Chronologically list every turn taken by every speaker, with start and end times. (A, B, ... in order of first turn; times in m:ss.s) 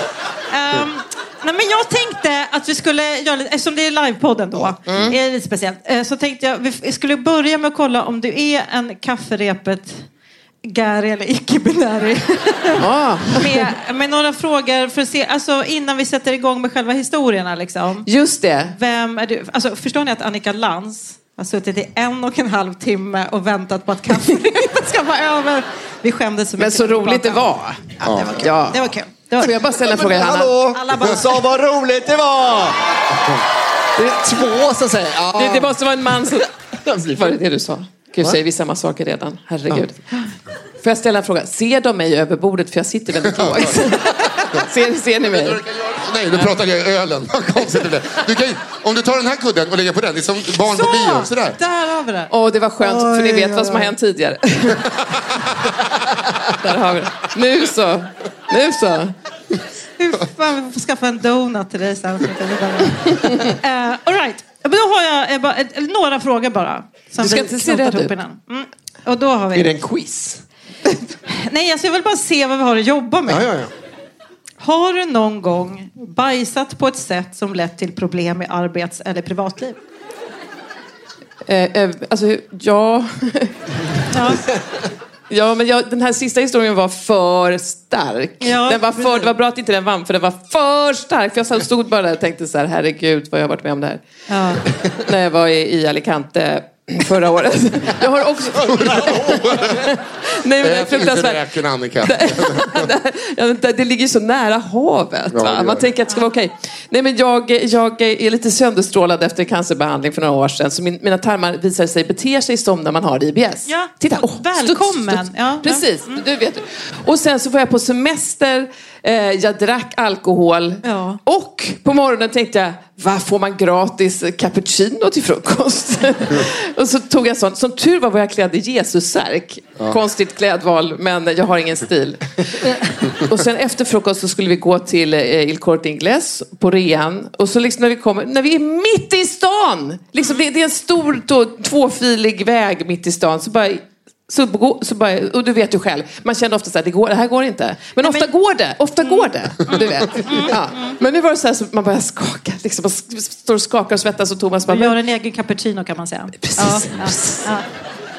0:00.5-0:10.0 A
0:04.9-0:05.2 B
0:10.6-0:18.1 A
0:12.8-0:13.7 B
0:18.0-0:18.8 B
0:18.6-0:29.6 A
0:26.6-0:30.6 B
0:28.0-0:28.4 C
0:29.7-0:33.0 D
0:30.6-0:31.5 A
0:34.0-0:35.8 D
0:35.3-0:36.5 B
0:36.7-0:37.4 D
0:37.1-0:40.2 B
0:40.8-0:45.6 B
0:43.2-0:43.7 C
0:45.3-0:51.6 C
0:50.7-0:53.9 A
0:52.3-0:55.0 B
0:55.0-0:55.4 C
0:56.4-0:59.1 B
1:00.0-1:09.8 A
1:07.2-1:08.1 B
1:09.5-1:10.4 D
1:11.1-1:13.5 A
1:13.3-1:13.7 D
1:14.6-1:19.8 A
1:21.4-1:23.5 B
1:24.1-1:24.4 A
1:25.3-1:34.0 B
1:28.4-1:29.3 A
1:34.3-1:34.7 A
1:34.8-2:35.0 B
1:38.5-1:39.9 C
1:40.6-1:42.9 C
1:45.3-1:45.9 C
1:53.7-1:56.2 A
2:00.8-2:01.2 A
2:28.0-2:28.3 A
2:29.0-2:31.0 A
2:34.7-2:37.7 A
2:36.4-2:37.5 B